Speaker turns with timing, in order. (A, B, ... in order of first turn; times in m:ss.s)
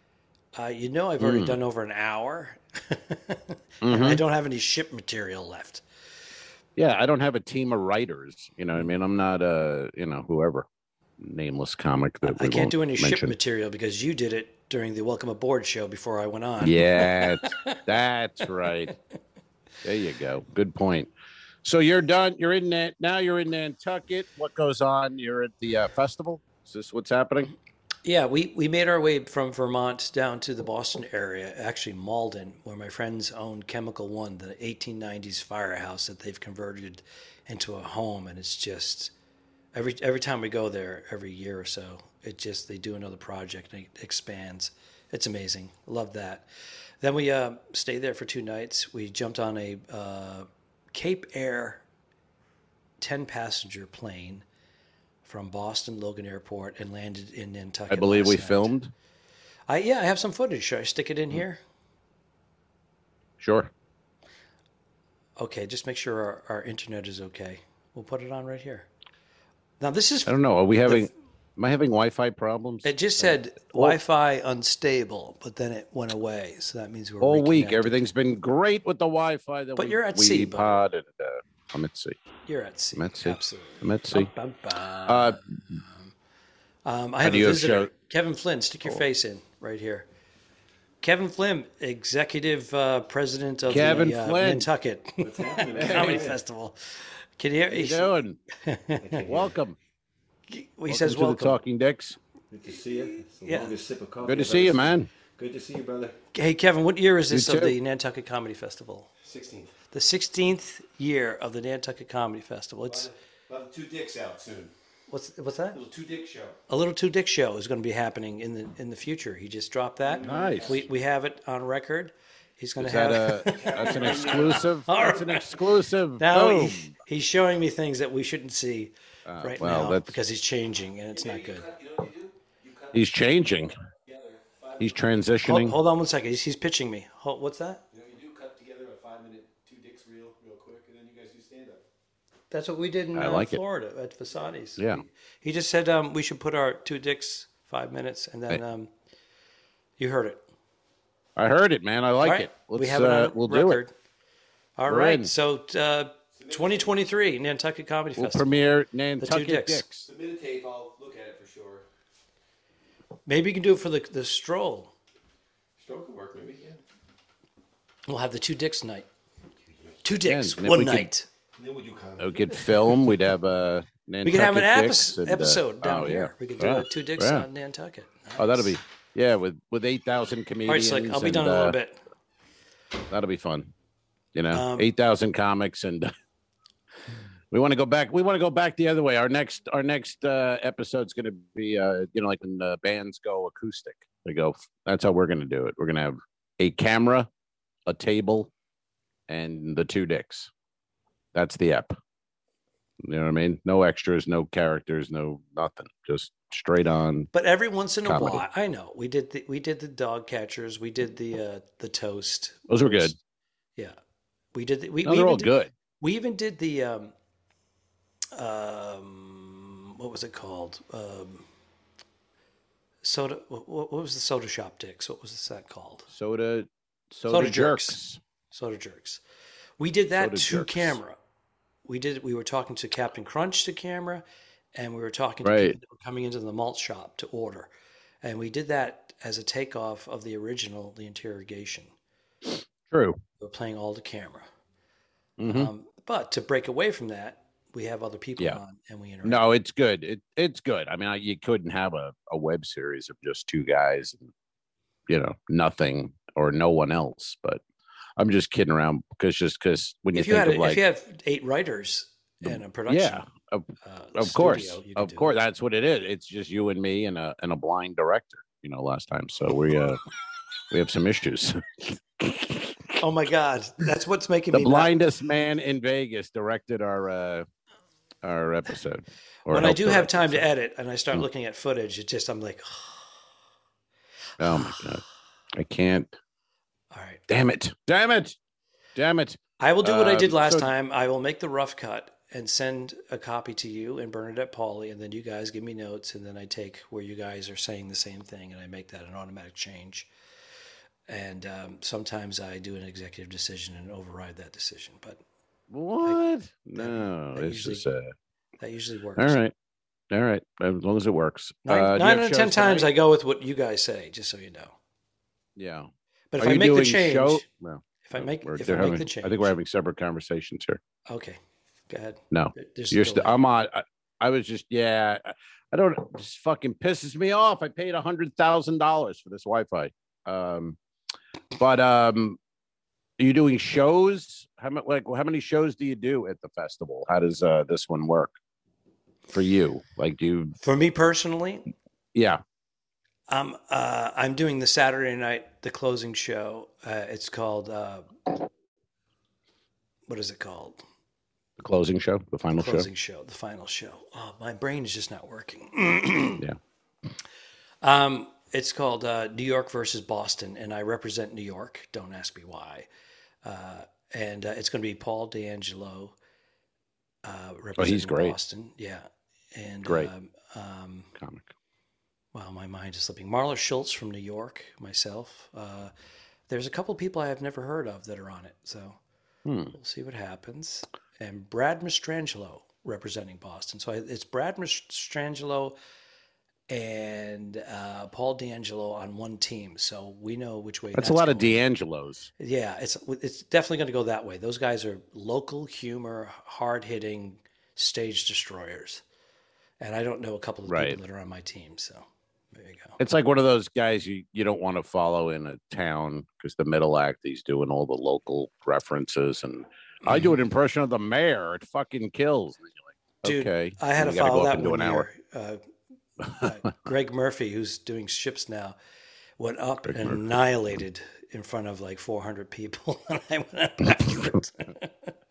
0:00.5-0:05.8 A
0:01.2-0:01.6 B
0:03.8-0:04.2 B
0:06.8-0:10.7 B
0:11.2-0:13.3 B
0:12.2-0:17.8 A
0:16.6-0:18.9 B
0:19.8-0:21.1 B
0:21.6-0:27.5 B
0:28.0-0:39.1 A
0:39.7-0:46.5 A
0:47.0-0:51.8 A
0:53.0-0:54.4 A
0:55.2-0:58.7 A
0:57.9-0:58.9 B
0:59.7-1:01.6 A
1:03.4-1:03.7 B
1:05.4-1:08.9 A
1:09.8-1:11.1 A
1:10.3-1:14.0 B
1:12.8-1:18.0 A
1:17.2-1:22.2 B
1:19.8-1:20.8 A
1:22.5-1:26.1 A
1:23.0-1:24.3 B
1:25.0-1:25.8 B
1:26.8-1:30.1 A
1:27.2-1:27.9 B
1:31.0-1:39.2 A
1:33.7-1:34.7 B
1:35.2-1:36.4 C
1:35.8-1:36.2 B
1:37.7-1:38.4 B
1:39.0-1:39.5 C
1:39.2-1:39.8 B
1:40.5-1:41.6 A
1:40.9-1:42.2 B
1:42.5-1:46.2 C
1:43.1-1:43.7 A
1:44.2-1:45.1 B
1:46.3-1:49.1 A
1:47.3-1:47.8 B
1:49.2-1:49.7 C
1:49.9-1:53.1 A
1:52.9-1:54.7 C
1:55.1-1:55.8 A
1:55.7-1:56.6 C
1:56.7-2:05.6 A
2:00.1-2:00.9 C
2:00.2-2:00.8 B
2:02.8-2:06.9 B
2:03.5-2:04.7 C
2:06.2-2:11.7 A
2:09.2-2:10.2 B
2:11.1-2:13.0 C
2:12.9-2:13.7 B
2:14.1-2:15.0 C
2:14.8-2:15.8 B
2:15.4-2:17.8 A
2:17.9-2:21.8 C
2:22.5-2:28.9 A
2:23.1-2:23.6 B
2:24.8-2:25.0 B
2:30.0-2:30.4 A
2:31.4-2:33.8 B
2:32.2-2:33.9 A
2:34.8-2:39.9 A
2:34.9-2:35.3 B
2:36.4-2:36.9 C
2:38.2-2:40.1 B
2:40.1-2:41.8 C
2:43.2-2:44.9 A
2:45.8-2:46.8 C
2:48.1-2:49.1 A
2:50.0-2:51.3 A
2:50.2-2:51.1 B
2:51.6-2:52.5 C
2:52.2-2:57.5 B
2:54.2-2:58.8 A
2:58.4-3:01.8 B
3:00.6-3:02.0 A
3:03.1-3:03.7 B
3:04.3-3:06.1 B
3:04.5-3:04.9 A
3:07.5-3:17.3 B
3:17.8-3:18.5 B
3:19.3-3:20.5 B
3:21.3-3:22.0 B
3:23.0-3:27.3 B
3:27.3-3:33.2 A
3:28.0-3:28.4 B
3:32.7-3:33.1 B
3:34.5-3:37.1 A
3:35.0-3:35.7 B
3:38.3-3:41.4 A
3:43.0-3:46.1 A
3:46.1-3:48.2 B
3:47.3-3:48.0 A
3:48.5-3:49.2 A
3:49.8-3:51.2 A
3:50.2-3:51.0 B
3:51.8-3:57.7 A
3:55.4-3:55.8 B
3:58.2-4:01.9 A
4:02.9-4:03.2 B
4:03.4-4:04.5 A
4:05.4-4:05.7 B
4:05.4-4:09.4 A
4:09.2-4:14.3 B
4:15.1-4:17.6 B
4:18.2-4:20.8 B
4:20.1-4:23.2 A
4:22.4-4:30.0 B
4:23.8-4:25.3 A
4:30.7-4:33.0 B
4:33.0-4:34.9 A
4:34.5-4:37.4 B
4:38.2-4:40.4 B
4:39.5-4:43.1 A
4:44.4-4:45.0 B
4:44.4-4:44.8 A
4:45.5-4:46.1 B
4:46.9-4:47.2 A
4:47.3-4:48.4 B
4:49.0-4:50.7 B
4:49.6-5:00.1 A
5:01.1-5:05.2 A
5:05.7-5:08.1 B
5:06.7-5:07.8 A
5:08.6-5:09.4 A
5:09.2-5:09.5 B
5:10.1-5:12.9 B
5:11.6-5:14.7 A
5:15.6-5:20.8 B
5:16.3-5:17.4 A
5:18.0-5:19.5 A
5:21.1-5:21.4 A
5:21.9-5:23.4 A
5:22.3-5:30.8 B
5:31.6-5:32.4 B
5:33.2-5:38.4 B
5:39.3-5:40.5 B
5:40.6-5:41.7 A
5:42.1-5:42.4 B
5:43.3-5:48.1 A
5:50.1-5:50.8 A
5:51.6-5:52.9 B
5:52.6-5:56.4 A
5:57.8-6:02.9 A
6:03.4-6:06.2 A
6:07.2-6:11.1 A
6:07.8-6:08.3 B
6:09.8-6:10.1 B
6:11.2-6:11.5 B
6:12.3-6:15.9 A
6:16.5-6:19.0 A
6:19.4-6:19.7 B
6:19.7-6:25.8 A
6:26.7-6:31.6 A
6:30.9-6:32.3 B
6:32.4-6:39.0 A
6:39.8-6:43.0 A
6:40.7-6:41.0 B
6:43.0-6:55.0 B
6:50.1-6:50.3 A
6:53.2-6:55.6 A
6:56.2-6:56.7 B
6:56.4-6:58.8 A
6:59.4-7:05.1 A
6:59.8-7:00.2 B
7:03.8-7:04.4 B